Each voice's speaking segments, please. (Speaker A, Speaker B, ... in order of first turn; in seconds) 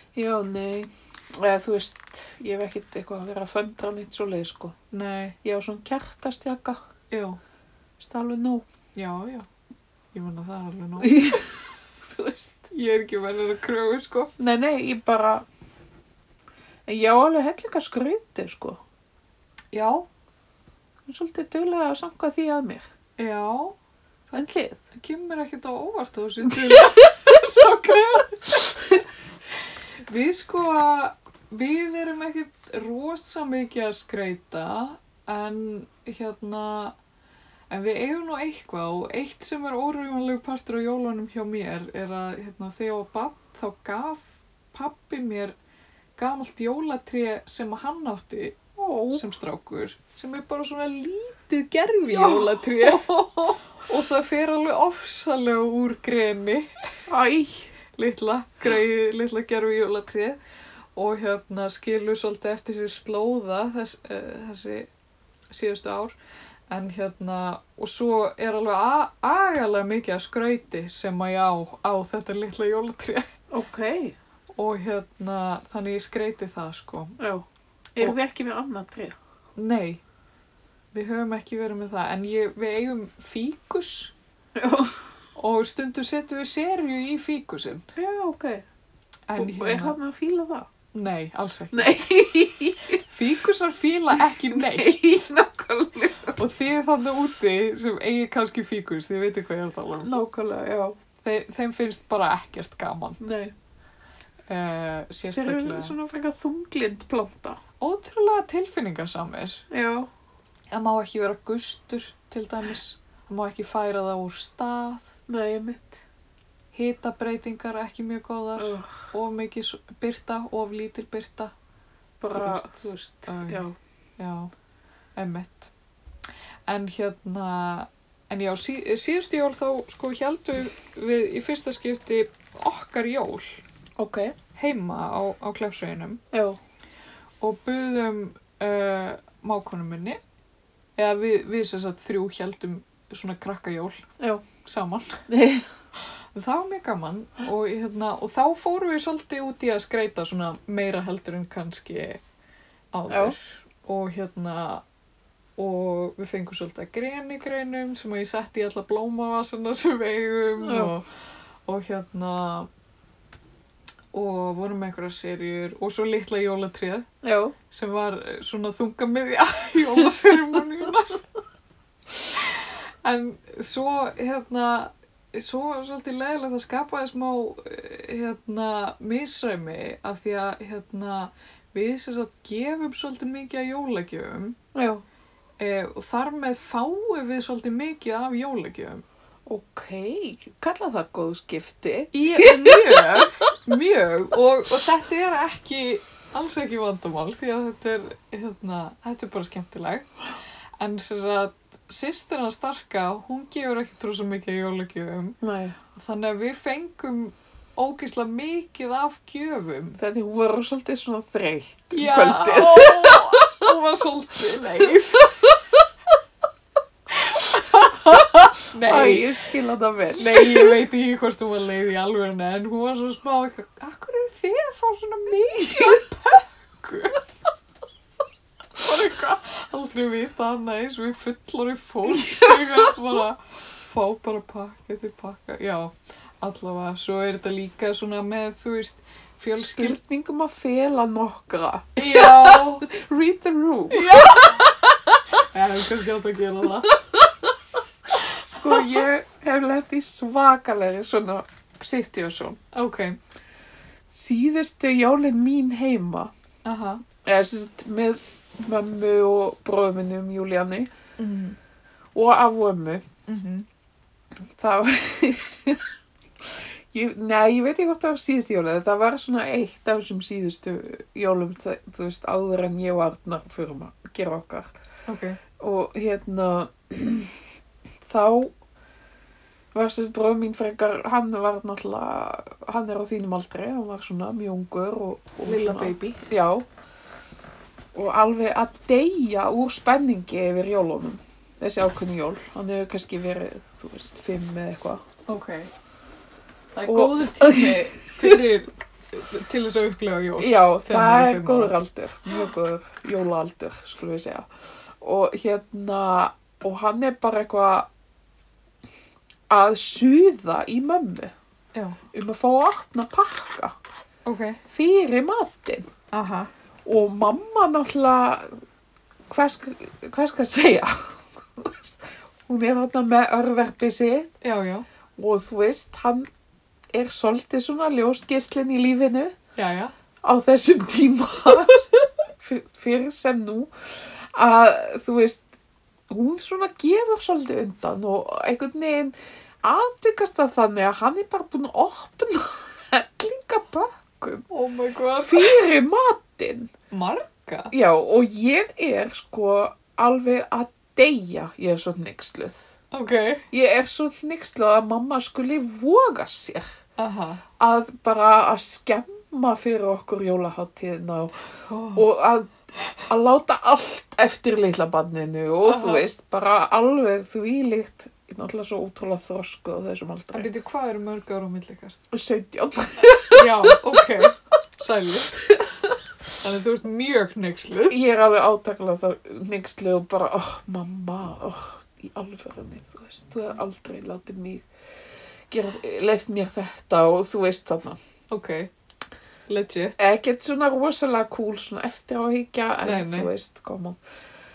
Speaker A: 0.1-4.8, 5.4-6.8, 8.0-8.7, 11.0-12.7, 14.4-15.5, 16.9-18.8, 21.1-22.9, 24.3-24.8, 48.8-49.2, 52.1-53.6, 57.1-57.7, 73.5-74.2, 77.2-77.5, 78.0-79.2, 84.5-85.0, 88.0-88.7, 89.4-90.7, 91.7-93.0, 94.2-96.4, 100.0-101.0, 103.2-103.5, 105.3-107.6, 109.7-110.1, 115.3-116.0, 118.6-119.0, 122.2-123.8, 134.0-134.3, 136.3-136.6, 144.2-144.4, 145.3-145.7, 153.1-153.4, 160.6-160.9, 167.2-167.6, 184.7-185.0, 189.5-193.4, 205.4-205.8, 210.0-213.5, 218.8-220.8, 225.7-226.0, 232.1-233.0, 239.6-245.2, 246.9-247.5, 248.3-252.6, 254.1-256.3, 257.2-260.9, 262.1-263.1, 264.5-265.9, 266.4-274.7, 275.6-277.3, 278.1-278.6, 279.7-286.7, 287.9-295.0, 296.9-298.5, 300.4-304.5, 305.0-307.9, 309.5-311.3, 312.1-313.7, 314.7-315.9, 316.9-318.6, 319.3-324.4, 325.2-326.3, 326.9-329.4, 330.2-331.9, 332.4-335.4, 336.1-344.5, 345.2-346.7, 347.7-352.6, 353.5-356.6, 357.6-361.4, 361.9-362.5, 363.1-370.5, 372.1-374.1, 377.9-384.7, 385.5-388.0, 390.0-394.0
Speaker B: 4.9-5.4, 7.1-7.4, 9.0-9.5, 10.1-11.4, 12.7-14.3, 19.7-20.1, 23.2-23.8, 24.9-28.9, 30.1-37.0, 37.7-45.5, 46.2-48.6, 49.1-57.0, 58.0-60.4, 61.0-64.9, 65.5-66.2, 66.7-73.3, 74.6-77.2, 79.6-80.0, 80.9-84.1, 85.4-87.9, 89.3-90.0, 90.9-92.0, 93.0-95.0, 96.4-100.2, 101.2-103.2, 104.5-106.0, 107.8-109.6, 110.7-115.1, 116.7-121.5, 122.3-123.7, 124.2-124.5, 125.2-125.7, 126.7-133.6, 134.6-136.2, 137.4-140.2, 141.0-144.1, 144.6-145.2, 146.3-152.2, 152.9-154.8, 155.6-161.1, 161.7-162.7, 164.1-167.1, 167.7-171.2, 172.4-184.6, 185.6-189.1, 192.1-200.1, 200.8-205.4, 205.9-210.0, 211.9-215.5, 217.1-219.3, 220.2-227.2, 228.8-240.0, 242.0-242.9, 243.9-244.7, 245.5-247.0, 252.7-253.2, 256.6-257.0, 261.2-261.6, 263.3-263.7, 275.1-275.4, 285.4-286.2, 295.3-295.7, 296.8-301.7, 311.8-312.0, 314.3-314.6, 316.1-316.5, 324.4-324.9, 329.6-329.9, 331.7-332.0, 344.5-345.7, 346.9-347.7, 352.9-353.4, 357.0-357.4, 361.7-362.1, 365.6-366.1, 370.3-372.0, 373.3-375.4, 376.4-378.0, 388.3-388.7, 389.5-390.0, 392.8-393.3